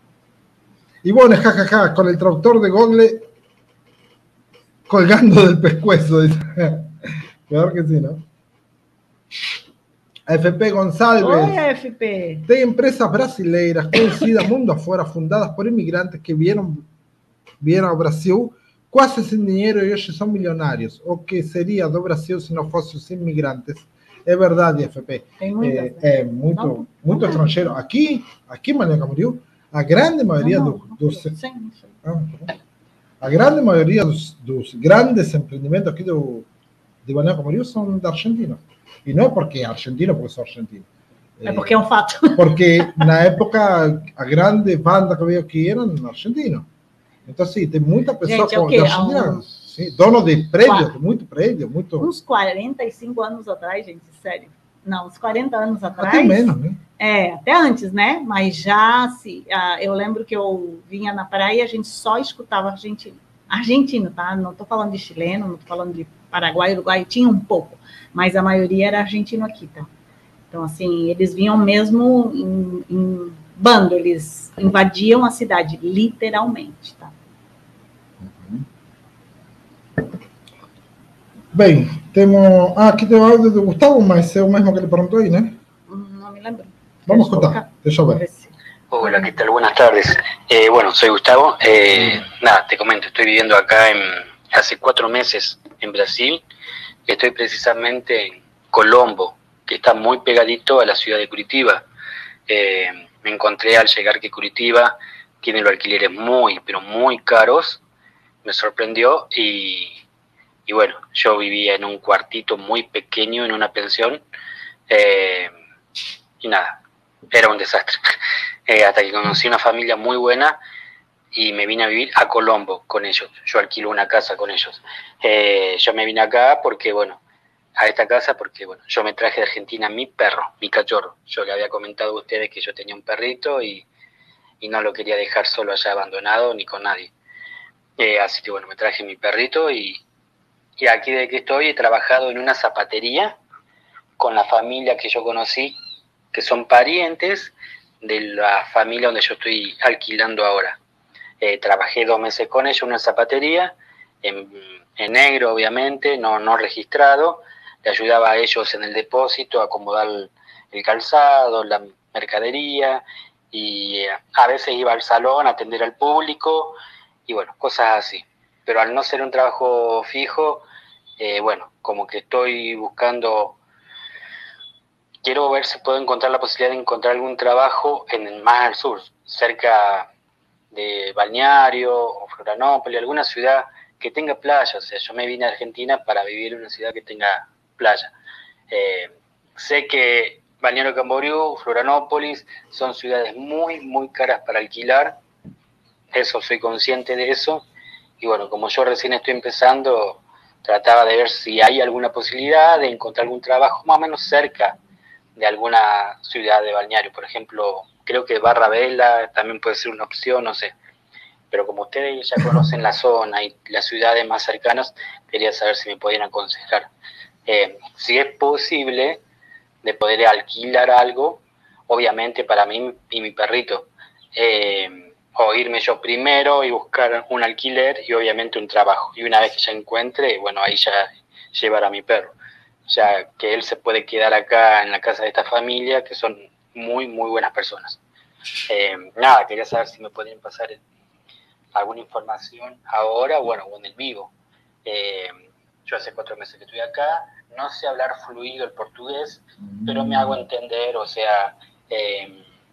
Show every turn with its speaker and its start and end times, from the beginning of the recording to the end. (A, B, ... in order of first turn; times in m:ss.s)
0:01.0-0:03.3 A
0:04.9-0:08.2 A
0:10.3-0:11.6 A
0:11.2-0:12.5 B
0:12.5-0:16.8 A
0:17.6-0:31.4 A
0:25.4-0:27.6 B
0:30.4-0:32.0 B
0:32.0-0:32.6 A
0:33.2-0:36.5 A
0:37.0-0:40.9 A
0:41.4-0:41.7 A
0:41.4-0:43.1 B
0:42.4-0:46.7 A
0:47.3-0:52.1 A
0:48.2-0:49.4 B
0:50.6-0:50.9 B
0:52.0-1:09.9 B
0:56.0-0:56.8 A
1:10.5-1:17.1 B
1:18.2-1:18.6 A
1:21.5-1:25.6 A
1:25.9-1:29.2 B
1:27.1-1:28.2 A
1:28.9-1:36.4 C
1:37.1-1:41.8 C
1:42.5-1:47.8 C
1:48.4-1:49.9 C
1:50.7-1:54.2 C
1:54.9-1:55.5 C
1:56.4-1:56.8 C
1:57.3-1:58.1 C
1:58.7-2:00.6 C
2:01.3-2:07.2 C
2:07.8-2:13.8 C
2:14.6-2:17.1 C
2:18.0-2:20.0 C
2:20.8-2:23.4 C
2:24.2-2:25.7 C
2:26.3-2:30.8 C
2:31.4-2:46.8 C
2:47.3-2:50.6 C
2:51.2-2:53.6 C
2:55.2-3:00.1 C
3:00.7-3:08.1 C
3:08.7-3:15.2 C
3:16.1-3:17.6 C
3:18.2-3:24.8 C
3:25.4-3:30.7 C
3:31.5-3:36.9 C
3:37.5-3:39.2 C
3:39.8-3:52.3 C
3:52.9-3:58.0 C
3:58.7-4:00.8 C
4:01.7-4:04.3 C
4:04.8-4:05.3 C
4:05.8-4:12.4 C
4:09.7-4:10.4 A